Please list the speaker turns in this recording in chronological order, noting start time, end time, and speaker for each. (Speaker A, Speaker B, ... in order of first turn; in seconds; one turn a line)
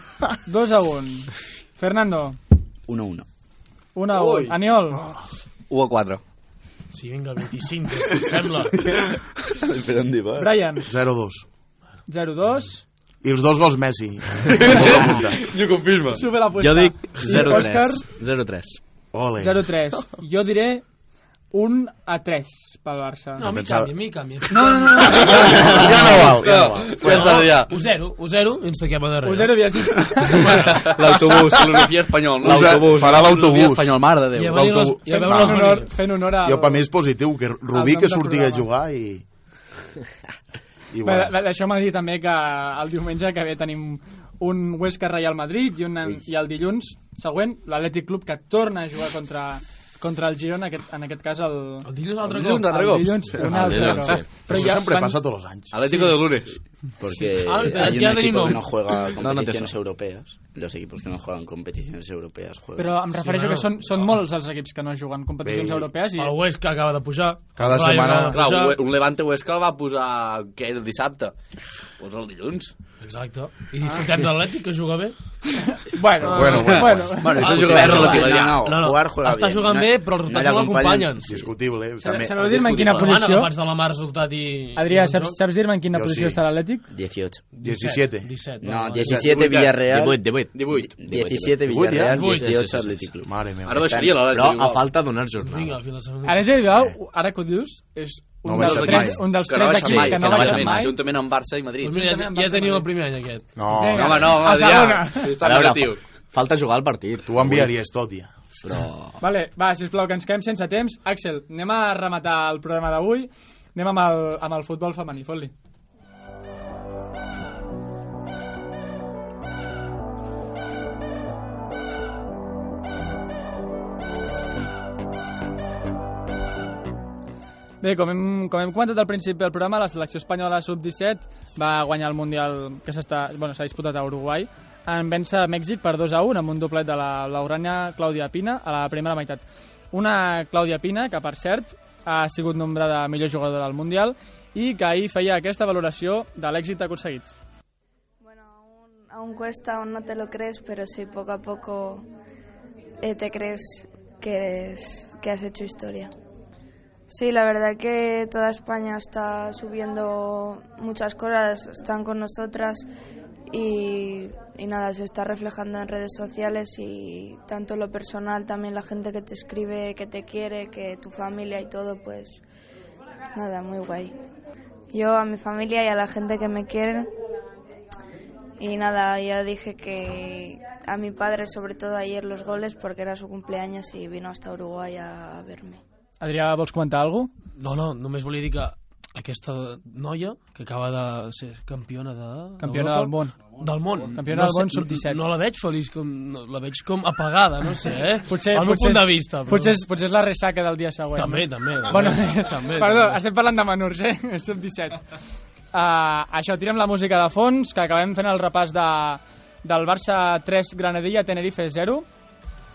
Speaker A: 0.5-2.4
Speaker B: 2.9-3.3
Speaker A: 4.0-5.0
Speaker C: 4.1-4.6
Speaker C: 5.7-6.2
Speaker D: 6.9-9.0
Speaker B: 9.5-10.6
Speaker A: 10.4-10.9
Speaker E: 10.9-11.5
Speaker A: 12.1-12.8
Speaker E: 13.2-15.4
Speaker C: 14.6-16.2
Speaker A: 16.1-18.1
Speaker F: 16.6-18.8
Speaker E: 19.1-19.8
Speaker A: 19.4-20.8
Speaker A: 21.5-23.5
Speaker D: 23.4-26.3
Speaker E: 23.4-23.9
Speaker A: 24.5-25.8
Speaker E: 25.5-27.5
Speaker C: 26.4-27.7
Speaker D: 26.9-30.9
Speaker A: 29.2-30.6
Speaker C: 30.7-35.1
Speaker F: 31.0-31.6
Speaker E: 31.3-31.8
Speaker E: 32.4-35.8
Speaker D: 34.4-36.0
Speaker A: 35.1-36.9
Speaker E: 36.4-39.3
Speaker A: 37.7-38.7
Speaker E: 40.9-41.4
Speaker A: 41.0-51.9
Speaker D: 51.8-54.1
Speaker C: 52.2-54.3
Speaker A: 52.7-55.2
Speaker F: 53.5-54.3
Speaker E: 54.5-56.1
Speaker C: 55.7-56.5
Speaker B: 57.0-63.0
Speaker D: 57.1-59.1
Speaker F: 59.2-59.8
Speaker A: 62.8-66.4
Speaker D: 63.2-64.2
Speaker E: 65.4-65.9
Speaker D: 66.2-68.8
Speaker E: 67.6-68.4
Speaker C: 68.3-72.7
Speaker D: 73.0-76.7
Speaker A: 75.7-77.4
Speaker E: 76.2-77.6
Speaker C: 76.6-78.6
Speaker D: 77.4-81.4
Speaker B: 77.4-81.5
Speaker E: 81.2-82.3
Speaker A: 82.0-83.5
Speaker C: 82.4-83.1
Speaker D: 82.7-85.4
Speaker A: 84.8-86.9
Speaker E: 85.9-86.4
Speaker B: 86.9-87.5
Speaker D: 87.5-89.2
Speaker E: 87.6-89.2
Speaker B: 88.6-94.3
Speaker C: 89.1-89.9
Speaker F: 89.9-93.1
Speaker C: 90.5-90.9
Speaker E: 91.7-92.4
Speaker D: 92.1-92.7
Speaker E: 93.2-93.9
Speaker C: 93.7-94.9
Speaker F: 94.3-95.8
Speaker D: 95.4-96.6
Speaker A: 96.3-100.9
Speaker E: 98.5-100.2
Speaker C: 98.5-102.0
Speaker F: 100.2-100.9
Speaker D: 101.8-103.6
Speaker A: 101.9-102.9
Speaker E: 103.6-104.4
Speaker A: 103.7-105.4
Speaker C: 104.0-106.0
Speaker F: 105.4-107.7
Speaker E: 107.2-108.9
Speaker F: 108.6-109.2
Speaker A: 109.2-115.5
Speaker A: 127.8-147.3
Speaker G: 148.2-152.1
Speaker G: 153.0-156.1
Speaker G: 157.1-162.9
Speaker G: 163.5-172.4
Speaker G: 173.3-174.1
Speaker G: 174.9-177.1
Speaker G: 178.6-185.8
Speaker A: 186.2-187.3
Speaker D: 187.6-199.8
Speaker A: 192.6-195.2
Speaker A: 198.3-205.2
Speaker D: 201.2-203.2
Speaker A: 205.7-212.1